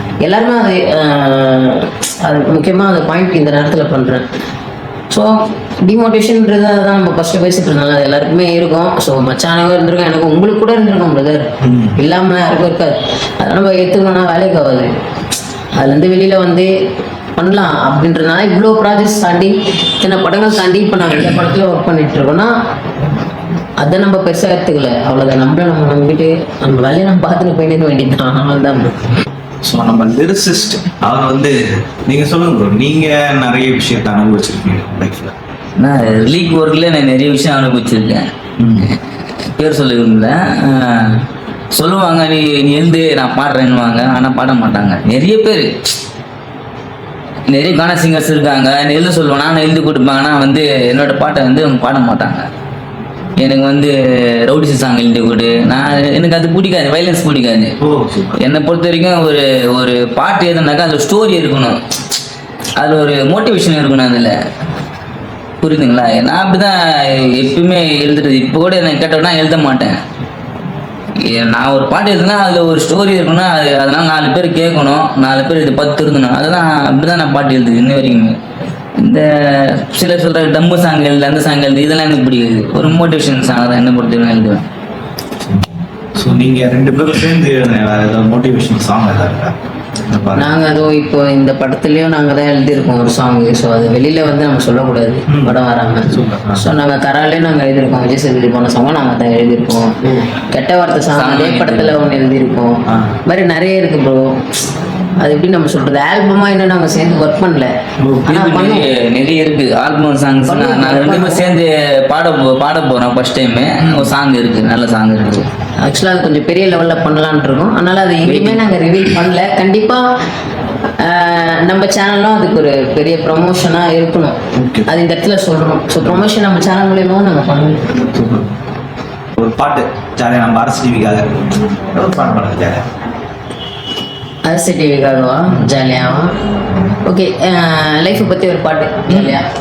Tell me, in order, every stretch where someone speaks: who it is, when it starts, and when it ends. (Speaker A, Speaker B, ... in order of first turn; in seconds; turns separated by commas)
Speaker A: 0.2-4.3, Speaker A: 5.1-14.9, Speaker B: 11.6-12.0, Speaker A: 15.8-16.7, Speaker A: 17.4-22.5, Speaker A: 23.8-29.0, Speaker B: 29.6-35.3, Speaker C: 35.8-38.3, Speaker B: 36.0-36.5, Speaker B: 38.6-38.9, Speaker C: 39.6-41.2, Speaker C: 41.7-45.8, Speaker C: 47.5-52.5, Speaker C: 53.4-57.8, Speaker B: 57.8-58.4, Speaker C: 58.4-61.8, Speaker C: 62.8-64.3, Speaker C: 65.6-70.0, Speaker C: 71.2-78.4, Speaker C: 79.0-84.6, Speaker B: 86.2-89.5, Speaker B: 90.1-90.5, Speaker A: 90.4-104.4, Speaker B: 95.3-96.7, Speaker B: 100.0-100.3, Speaker C: 101.1-102.0, Speaker B: 102.9-103.2, Speaker A: 105.2-107.7, Speaker C: 108.1-115.5, Speaker A: 108.3-108.9, Speaker A: 110.5-111.5, Speaker B: 113.8-114.1, Speaker A: 115.8-120.1, Speaker C: 118.3-118.6, Speaker A: 121.0-128.0, Speaker B: 124.5-124.9, Speaker B: 128.1-128.6, Speaker B: 129.4-132.8, Speaker A: 134.4-136.3, Speaker A: 137.1-139.5, Speaker B: 139.1-139.4